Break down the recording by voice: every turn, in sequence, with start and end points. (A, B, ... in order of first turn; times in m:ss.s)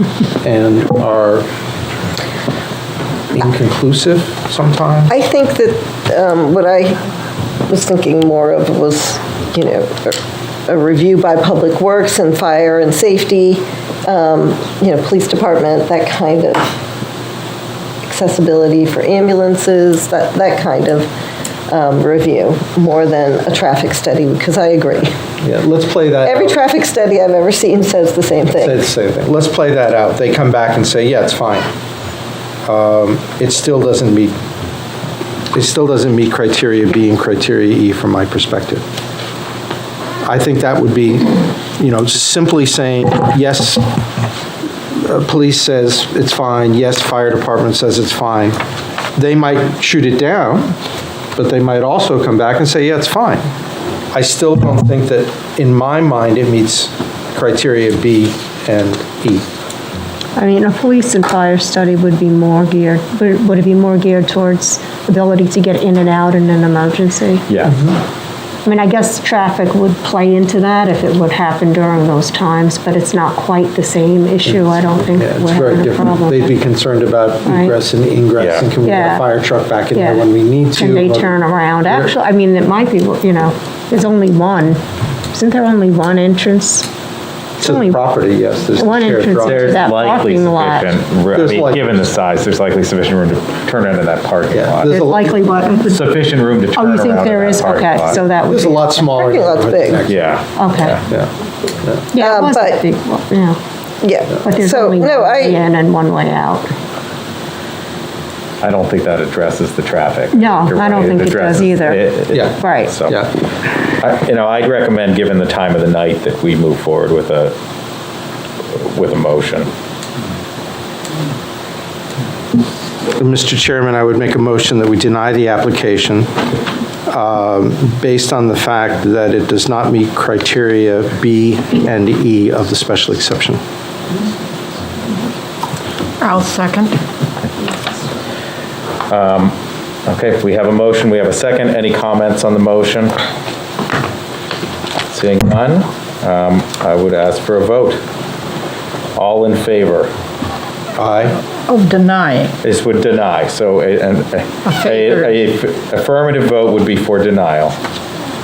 0:00.4-0:01.5 A
0:03.3-0:05.1 A
0:05.1-0:07.0 B
0:07.7-0:16.7 B
0:18.1-0:21.1 B
0:21.7-0:25.1 B
0:25.4-0:26.6 A
0:26.2-0:28.8 B
0:28.6-0:31.7 A
0:32.6-0:34.4 A
0:35.5-0:38.8 A
0:40.2-0:43.8 A
0:45.0-0:48.6 A
0:49.2-0:50.8 A
0:51.4-0:53.5 A
0:54.1-0:59.5 A
1:00.4-1:07.8 C
1:07.5-1:07.7 D
1:08.6-1:16.5 C
1:14.5-1:21.4 A
1:17.5-1:17.7 C
1:18.4-1:18.7 D
1:18.8-1:19.2 C
1:19.9-1:20.2 C
1:20.8-1:24.8 C
1:25.3-1:26.9 C
1:27.6-1:28.0 C
1:27.6-1:29.8 A
1:28.8-1:31.0 C
1:29.4-1:35.0 D
1:31.3-1:32.0 A
1:34.5-1:35.4 A
1:34.9-1:36.1 C
1:35.9-1:38.2 D
1:36.7-1:39.1 C
1:38.4-1:40.2 A
1:39.0-1:40.0 B
1:40.1-1:41.0 D
1:40.6-1:41.0 C
1:42.1-1:43.6 C
1:42.2-1:42.8 B
1:44.0-1:45.6 B
1:44.4-1:46.7 C
1:48.6-1:53.2 D
1:50.3-1:53.0 C
1:54.0-1:57.6 D
1:58.7-1:59.7 D
2:03.2-2:06.3 A
2:07.1-2:13.6 A
2:16.2-2:17.0 E
2:19.1-2:19.6 D
2:20.1-2:23.1 D
2:25.1-2:28.0 D
2:29.2-2:30.1 D
2:31.0-2:31.4 A
2:31.7-2:32.5 E
2:32.6-2:37.8 D
2:34.7-2:35.3 E